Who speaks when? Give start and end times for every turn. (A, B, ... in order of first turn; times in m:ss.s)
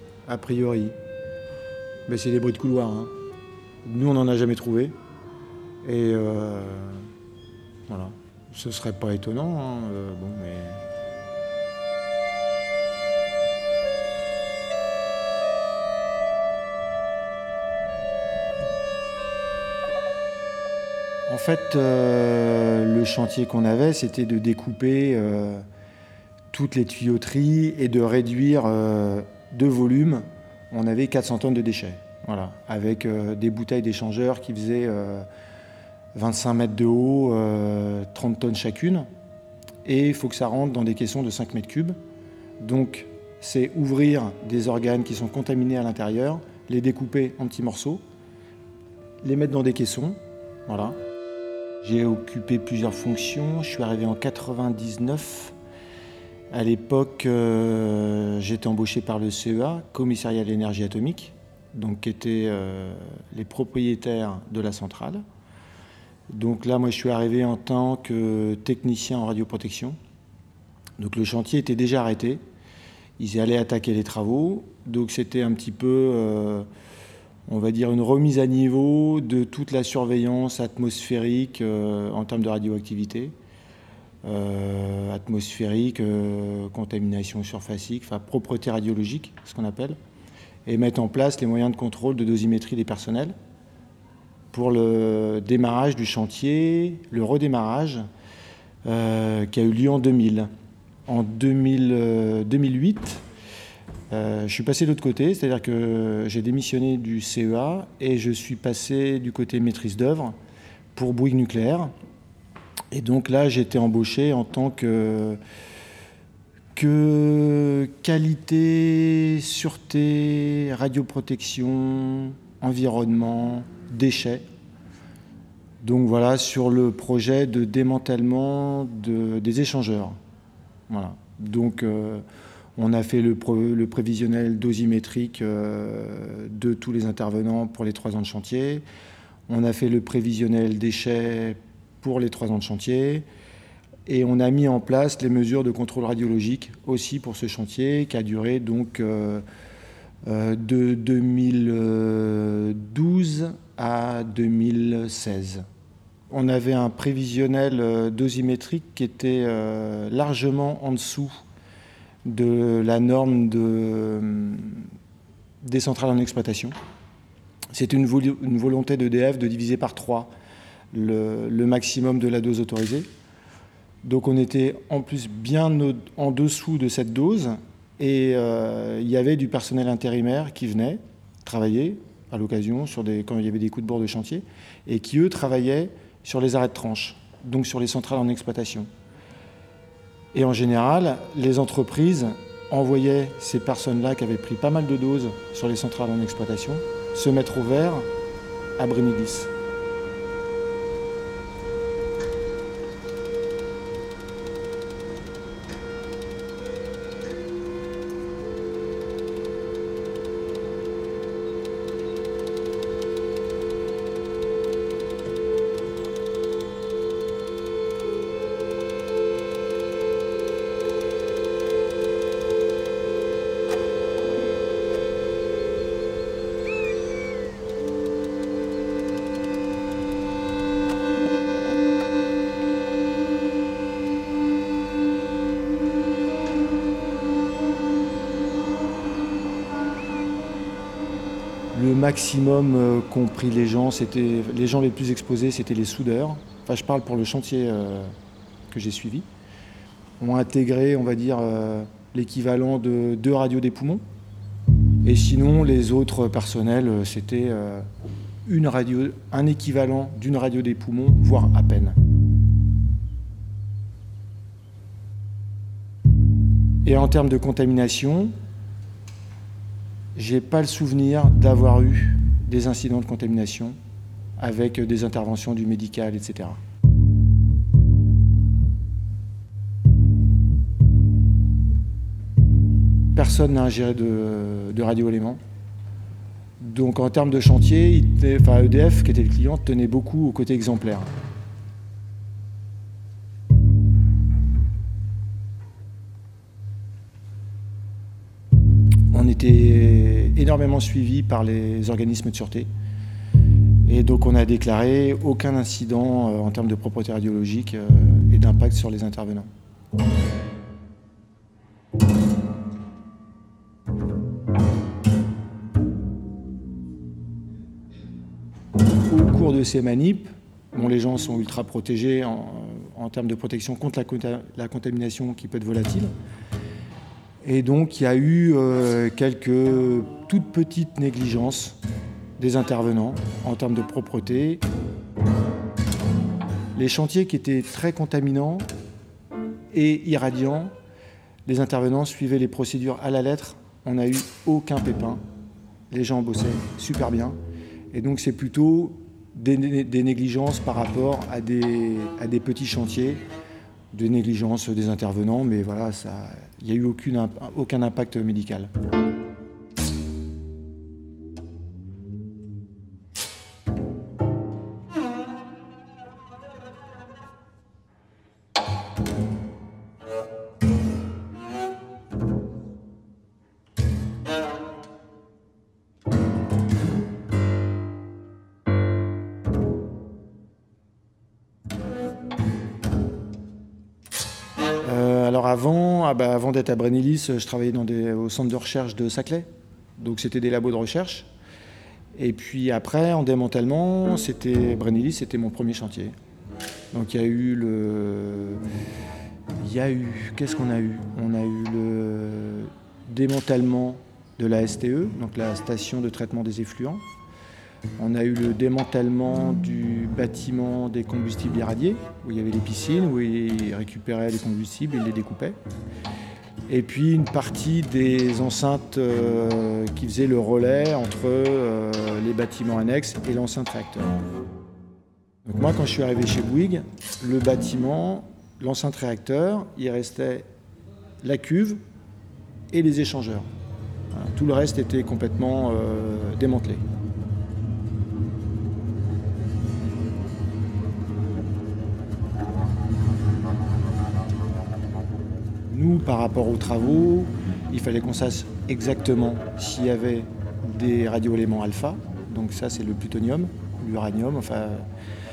0:00.3-0:00.9 A
0:02.1-0:03.1 A
0:03.8-0:04.9 A
0:05.8-0:07.1 A
0:07.9-0:10.8 A
0:21.3-0:25.6 A
0:26.5-0:35.3 A
0:36.1-0:39.1 A
0:39.8-0:42.0 A
0:42.6-0:48.0 A
0:49.2-0:51.0 A
0:51.8-0:55.5 A
0:56.5-1:05.2 A
1:06.3-1:10.0 A
1:11.0-1:12.4 A
1:13.2-1:16.7 A
1:17.5-1:23.3 A
1:24.2-1:30.0 A
1:30.6-1:33.3 A
1:34.5-1:38.1 A
1:38.8-1:40.5 A
1:41.0-1:43.2 A
1:44.1-1:50.4 A
1:50.9-1:51.9 A
1:52.9-1:55.4 A
1:56.7-2:04.4 A
2:05.8-2:10.2 A
2:10.9-2:12.2 A
2:12.8-2:18.8 A
2:19.5-2:23.2 A
2:24.1-2:29.4 A
2:30.2-2:35.6 A
2:36.3-2:41.4 A
2:42.2-2:44.9 A
2:45.6-2:46.8 A
2:47.7-2:50.3 A
2:50.9-2:53.1 A
2:54.0-3:08.9 A
3:10.3-3:18.1 A
3:18.8-3:19.5 A
4:01.7-4:08.1 A
4:08.7-4:09.3 A
4:10.2-4:14.0 A
4:15.0-4:17.9 A
4:18.4-4:22.0 A
4:26.8-4:28.3 A
4:30.2-4:33.8 A
4:34.4-4:36.6 A
4:43.1-4:45.4 A
4:46.6-4:51.1 A
4:59.1-5:02.7 A
5:03.8-5:09.5 A
5:19.1-5:26.1 A
5:27.4-5:31.8 A
5:32.4-5:34.6 A
5:36.7-5:38.7 A
5:39.7-5:40.7 A
5:41.4-5:45.2 A
5:45.9-5:47.4 A
5:47.9-5:53.2 A
5:53.9-5:58.7 A
6:24.8-6:31.3 A
6:32.1-6:36.1 A
6:36.9-6:38.6 A
6:39.6-6:47.0 A
6:48.0-6:55.6 A
6:56.7-7:04.2 A
7:05.4-7:10.5 A
7:11.2-7:11.8 A
7:12.7-7:13.5 A
7:14.1-7:16.8 A
7:25.7-7:34.9 A